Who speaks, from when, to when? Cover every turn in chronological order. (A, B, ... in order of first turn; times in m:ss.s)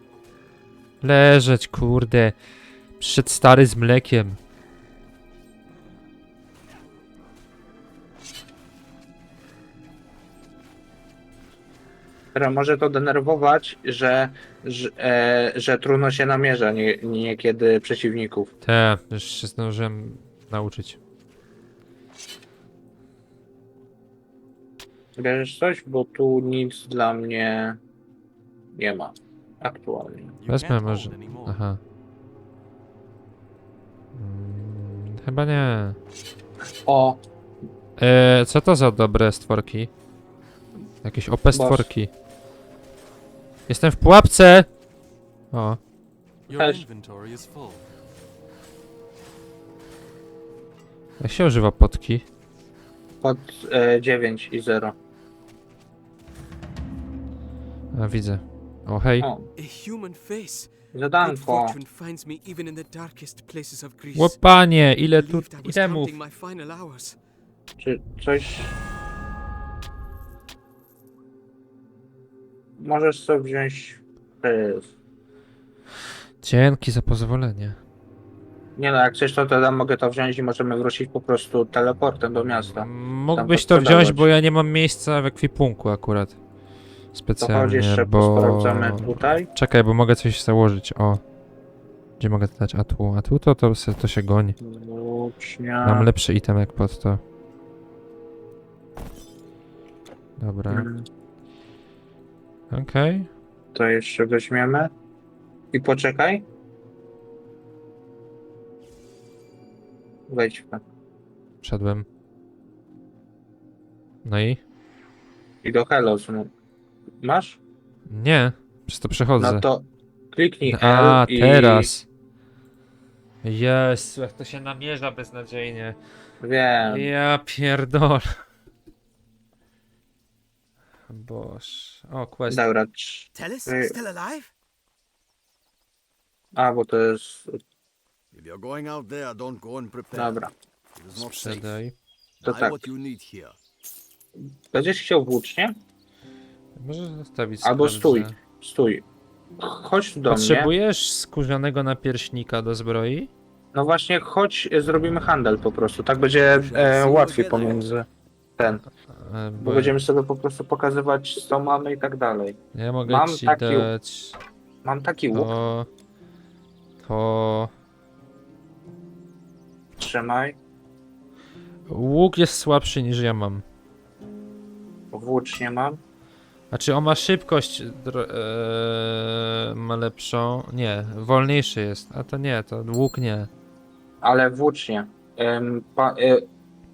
0:01.0-0:02.4 A
0:03.0-0:04.4 A
0:12.3-0:18.5 B
0:18.6-0:21.0 A
0:25.2-0:27.8 B
0:28.8-0:30.4 B
0:30.4-0:31.6 C
0:30.5-0:31.8 A
0:34.1-0:36.0 A
0:36.8-0:37.2 B
0:38.0-0:39.9 A
0:41.0-0:42.1 A
0:41.5-0:41.9 B
0:43.7-0:44.7 A
0:45.5-0:45.8 A
0:46.5-0:47.9 C
0:46.5-0:46.8 B
0:51.2-0:52.2 A
0:53.2-0:55.0 B
0:57.9-0:59.3 A
0:59.2-0:59.5 B
0:59.6-1:04.4 D
1:00.9-1:01.8 B
1:04.1-1:06.2 A
1:05.1-1:07.2 D
1:07.8-1:08.8 B
1:12.8-1:14.9 B
1:16.4-1:17.8 A
1:18.8-1:24.3 B
1:22.5-1:26.4 A
1:27.1-1:31.2 A
1:27.4-1:29.5 B
1:32.2-1:34.6 A
1:34.6-1:36.1 B
1:35.8-1:37.2 A
1:40.4-1:40.9 A
1:40.7-1:41.0 B
1:42.7-1:43.3 A
1:43.7-1:44.9 B
1:45.7-1:46.4 B
1:50.3-1:50.8 B
1:51.6-1:52.1 A
1:54.2-1:54.6 A
1:55.6-1:56.5 B
1:57.2-1:57.6 B
1:58.1-1:59.6 A
1:59.4-2:01.9 B
2:00.6-2:02.1 A
2:03.4-2:06.0 A
2:06.4-2:07.1 B
2:06.9-2:08.3 A
2:11.1-2:12.6 A
2:12.5-2:13.9 B
2:13.6-2:14.5 E
2:16.5-2:17.6 B
2:18.3-2:20.4 E
2:20.1-2:20.5 B
2:20.9-2:21.8 E
2:21.1-2:21.9 A
2:22.4-2:22.9 B
2:22.4-2:23.6 E
2:24.4-2:25.7 B
2:26.8-2:28.4 A
2:27.6-2:29.0 B
2:29.6-2:30.7 B
2:30.3-2:33.3 A
2:33.7-2:38.0 B
2:36.5-2:37.8 E
2:38.6-2:38.8 B
2:39.0-2:40.0 A
2:39.6-2:43.9 B
2:42.7-2:44.4 A
2:44.8-2:45.5 B
2:45.3-2:45.9 A
2:47.0-2:47.7 A
2:50.0-2:50.6 B
2:51.9-2:53.6 A
2:55.1-2:56.0 B
2:56.7-3:03.5 A
3:04.2-3:06.4 B